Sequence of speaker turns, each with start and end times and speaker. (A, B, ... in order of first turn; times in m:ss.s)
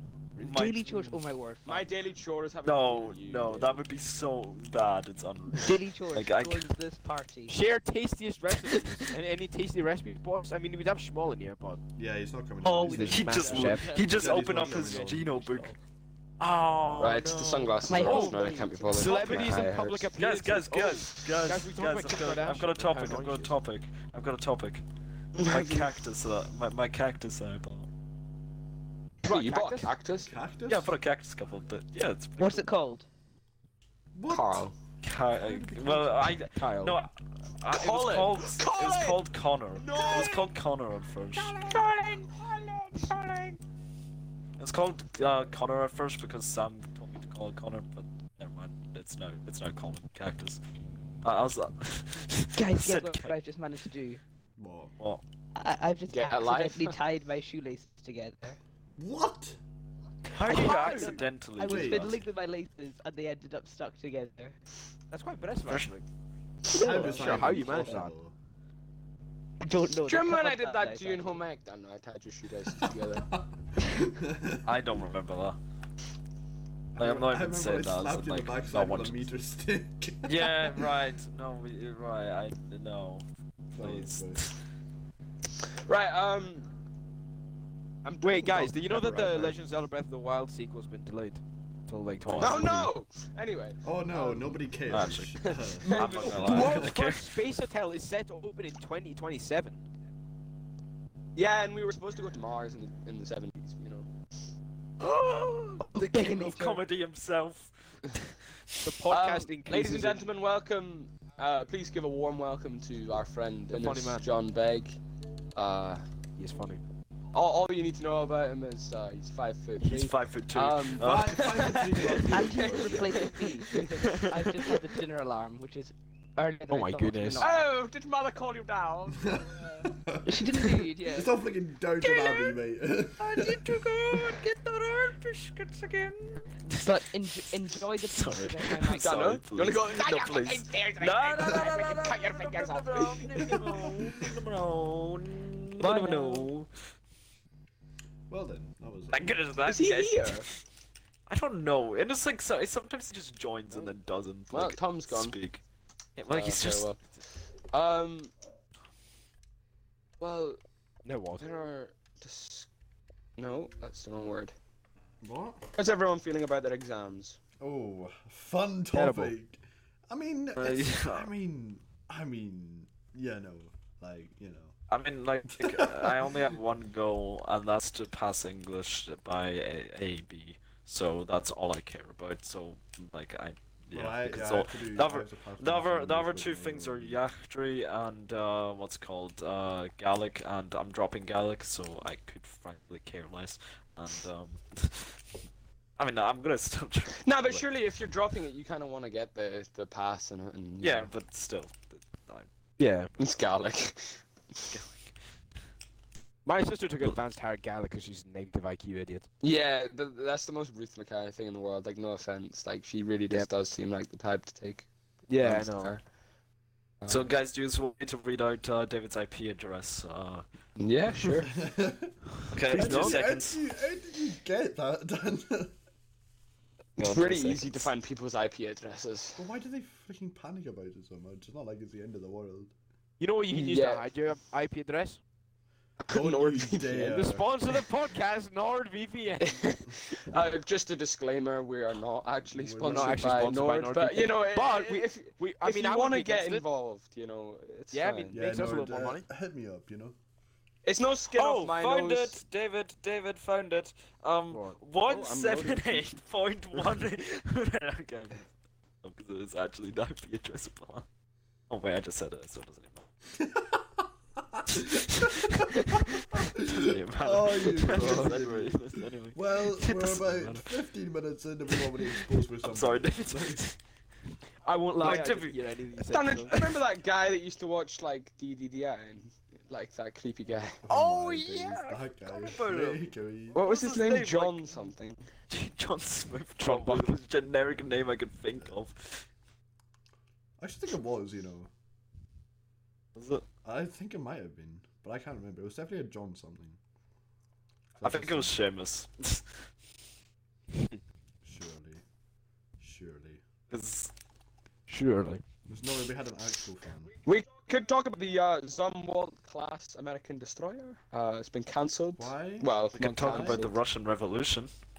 0:00.4-0:01.2 A
0:00.4-0:01.9 B
0:01.6-0:03.8 C
0:02.6-0:06.7 A
0:05.6-0:07.6 B
0:07.5-0:11.8 D
0:12.0-0:15.4 E
0:12.6-0:15.7 A
0:12.8-0:14.0 D
0:13.4-0:15.7 B
0:16.4-0:17.8 A
0:17.0-0:20.1 C
0:17.9-0:19.1 B
0:18.0-0:23.5 D
0:19.1-0:19.6 A
0:20.2-0:24.8 A
0:25.4-0:25.9 C
0:25.4-0:27.9 A
0:29.2-0:29.9 D
0:29.2-0:30.3 C
0:30.2-0:31.0 E
0:30.7-0:32.7 A
0:32.4-0:33.1 B
0:34.1-0:34.7 E
0:34.3-0:34.7 C
0:35.0-0:41.8 A
0:35.3-0:36.4 E
0:36.6-0:37.0 D
0:37.7-0:39.2 C
0:39.8-0:40.5 C
0:41.3-0:43.6 C
0:44.6-0:50.6 A
0:51.2-0:53.3 A
0:52.5-0:54.2 B
0:54.6-0:54.9 E
0:55.6-0:58.6 B
0:56.1-0:57.0 C
0:59.0-0:59.6 E
1:00.3-1:02.1 A
1:00.4-1:04.6 B
1:00.4-1:01.2 D
1:01.6-1:02.2 E
1:05.1-1:06.0 D
1:05.7-1:06.0 A
1:06.7-1:07.7 B
1:06.7-1:08.3 E
1:06.8-1:08.1 D
1:09.6-1:11.4 B
1:10.0-1:13.3 C
1:12.7-1:14.8 E
1:14.6-1:15.6 A
1:16.9-1:20.9 E
1:17.0-1:19.3 A
1:20.2-1:23.2 A
1:23.7-1:24.5 E
1:23.8-1:24.5 A
1:25.8-1:26.7 C
1:28.0-1:29.6 C
1:28.2-1:32.9 D
1:32.2-1:32.8 A
1:32.4-1:34.6 C
1:33.8-1:37.0 E
1:34.9-1:37.3 A
1:35.4-1:36.8 C
1:36.3-1:39.8 D
1:41.3-1:44.1 C
1:45.0-1:48.8 A
1:45.9-1:46.8 B
1:48.8-1:50.2 D
1:49.1-1:55.0 C
1:53.7-1:54.2 D
1:55.5-1:56.0 C
1:56.4-1:56.8 D
1:57.3-2:04.2 C
1:59.8-2:02.0 A
2:01.0-2:03.3 E
2:02.3-2:07.7 B
2:04.0-2:04.3 A
2:06.7-2:07.5 D
2:07.4-2:09.9 C
2:09.2-2:13.8 E
2:10.2-2:11.3 B
2:13.2-2:16.8 A
2:16.7-2:19.4 B
2:18.0-2:26.7 A
2:18.9-2:23.7 C
2:23.6-2:23.9 E
2:25.8-2:26.5 B
2:28.3-2:29.4 E
2:29.1-2:30.4 A
2:29.7-2:30.5 C
2:31.3-2:35.6 A
2:34.5-2:35.4 C
2:36.2-2:36.9 A
2:36.3-2:37.0 C
2:37.7-2:38.3 C
2:40.2-2:40.6 C
2:41.0-2:41.4 D
2:41.4-2:42.7 C
2:43.4-2:44.5 C
2:45.2-2:45.6 E
2:45.7-2:47.4 C
2:47.6-2:54.7 E
2:48.9-2:49.3 D
2:50.6-2:51.3 A
2:54.9-3:15.2 A
2:55.5-2:56.6 E
3:03.9-3:07.2 E
3:16.0-3:17.6 A
3:17.2-3:21.1 C
3:20.8-3:22.5 A
3:22.8-3:23.1 D
3:23.2-3:24.7 C
3:24.7-3:25.1 A
3:26.4-3:29.3 D
3:29.4-3:34.9 C
3:35.3-3:36.0 D
3:35.4-3:36.0 C
3:37.0-3:37.3 C
3:37.1-3:40.4 A
3:40.8-3:41.5 C
3:41.5-3:42.2 E
3:42.5-3:43.6 A
3:42.7-3:45.7 E
3:42.7-3:43.2 D
3:47.0-3:49.4 C
3:47.0-3:47.8 A
3:49.4-3:52.7 E
3:53.2-3:55.2 D
3:53.5-3:54.1 C
3:56.0-3:57.2 C
3:56.1-3:57.5 E
3:57.0-3:59.7 D
3:59.4-4:08.4 C
4:02.5-4:03.6 E
4:02.8-4:06.6 D
4:07.9-4:09.2 D
4:08.3-4:10.2 E
4:10.8-4:12.4 C
4:11.3-4:18.5 A
4:14.5-4:14.8 D
4:15.1-4:16.1 C
4:19.0-4:21.0 A
4:21.7-4:23.0 A
4:23.4-4:33.6 E
4:24.7-4:30.7 A
4:27.9-4:28.3 C
4:31.7-4:33.8 A
4:34.6-4:36.7 D
4:35.0-4:35.6 A
4:36.0-4:40.8 C
4:40.8-4:43.6 E
4:40.9-4:44.7 A
4:43.5-4:45.3 C
4:45.5-4:49.2 A
4:46.6-4:47.2 D
4:50.6-4:51.7 E
4:53.2-4:53.4 A
4:53.6-4:56.8 E
4:58.0-4:58.6 E
4:58.0-4:59.4 A
5:01.4-5:02.0 E
5:02.8-5:03.4 E
5:03.7-5:04.1 A
5:04.9-5:05.4 D
5:05.7-5:07.1 E
5:07.2-5:13.8 C
5:12.2-5:13.6 E
5:12.9-5:14.7 A